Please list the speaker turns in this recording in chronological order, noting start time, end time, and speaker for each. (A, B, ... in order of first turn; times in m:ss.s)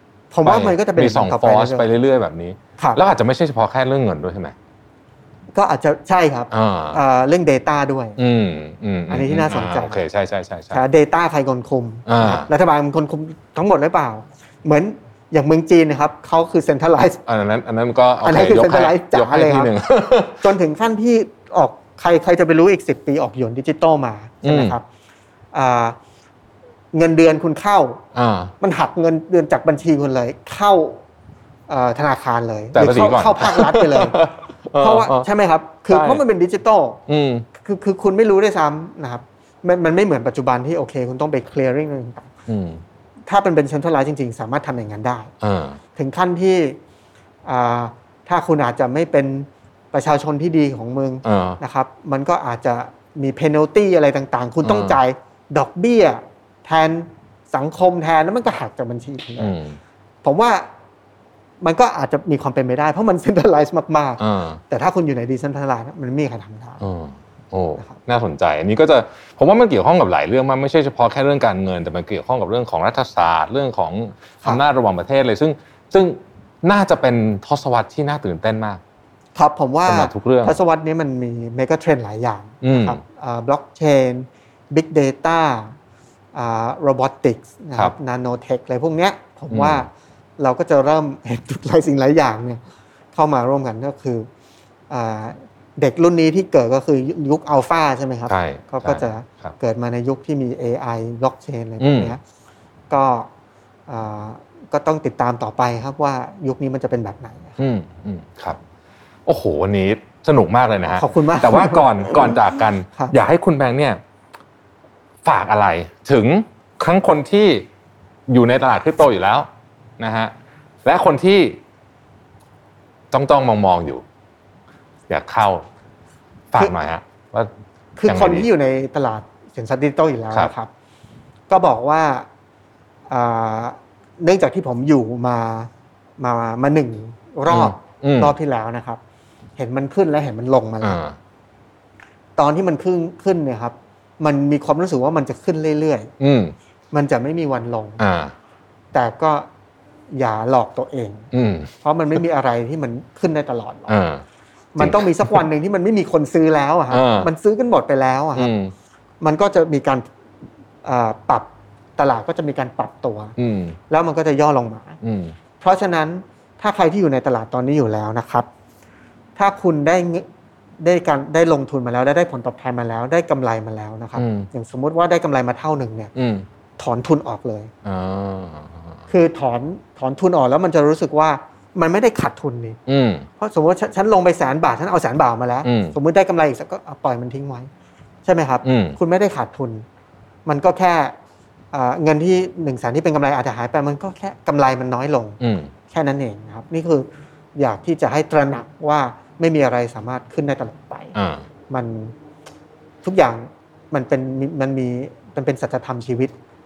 0:00.3-0:01.9 A
0:00.4-0:04.6 B
0:05.5-0:08.2 A
0:06.5-0:07.0 B
0:08.2-0:10.8 B
0:09.1-0:10.0 A
0:10.7-0:17.2 A
0:12.1-0:12.5 B
0:17.3-0:20.5 B
0:18.2-0:19.7 A
0:20.3-0:24.8 A
0:24.4-0:24.8 B
0:25.5-0:26.0 A
0:26.9-0:28.0 A
0:28.2-0:28.5 B
0:28.6-0:31.0 A
0:31.7-0:34.3 A
0:32.7-0:35.3 B
0:34.8-0:37.0 A
0:35.9-0:36.2 B
0:37.1-0:37.5 B
0:37.6-0:42.3 A
0:42.5-0:42.8 B
0:43.3-0:45.3 A
0:45.4-0:45.8 B
0:46.0-0:46.8 A
0:47.4-0:59.6 A
0:51.2-0:51.6 B
0:54.6-0:55.0 B
0:59.4-0:59.8 B
1:00.2-1:00.7 A
1:01.6-1:06.8 A
1:04.2-1:04.6 B
1:06.8-1:18.8 B
1:19.4-1:25.8 A
1:19.9-1:20.6 B
1:22.6-1:23.0 B
1:26.3-1:32.6 A
1:29.5-1:29.9 B
1:33.1-1:34.3 A
1:34.9-1:42.2 A
1:38.3-1:39.6 B
1:41.8-1:42.2 B
1:42.9-1:43.3 A
1:43.9-1:47.6 A
1:47.6-1:48.6 B
1:49.3-1:54.0 B
1:51.0-1:53.1 A
1:55.2-1:57.7 B
1:58.3-1:59.5 B
2:00.0-2:00.3 B
2:00.8-2:01.6 B
2:03.1-2:04.0 B
2:05.1-2:05.7 B
2:06.5-2:07.5 B
2:08.0-2:10.7 A
2:08.1-2:08.5 B
2:11.5-2:12.3 A
2:13.1-2:19.0 A
2:17.5-2:18.4 B
2:19.6-2:21.0 A
2:20.8-2:21.2 B
2:22.4-2:26.1 A
2:26.2-2:26.5 B
2:26.9-2:28.0 A
2:28.0-2:28.3 B
2:28.9-2:29.5 A
2:30.1-2:31.3 A
2:31.3-2:31.7 B
2:31.8-2:34.0 A
2:33.9-2:34.2 B
2:34.8-2:38.5 A
2:34.8-2:35.4 B
2:36.9-2:37.3 B
2:38.4-2:38.7 B
2:39.2-2:40.0 A
2:40.8-2:43.4 A
2:43.4-2:43.8 B
2:43.9-2:45.0 A
2:45.0-2:45.4 B
2:45.6-2:48.5 A
2:49.4-2:50.3 A
2:50.8-2:56.1 A
2:54.2-2:54.5 B
2:56.2-2:56.5 B
2:56.8-2:57.7 A
2:57.8-2:58.8 B
2:59.1-3:02.8 A
3:02.9-3:03.3 B
3:03.4-3:07.7 A
3:05.6-3:06.0 B
3:08.2-3:09.8 A
3:08.6-3:09.0 B
3:10.5-3:11.2 A
3:11.7-3:15.4 A
3:15.4-3:15.7 B
3:15.9-3:21.2 A
3:21.2-3:21.4 B
3:21.7-3:22.2 A
3:23.0-3:26.4 A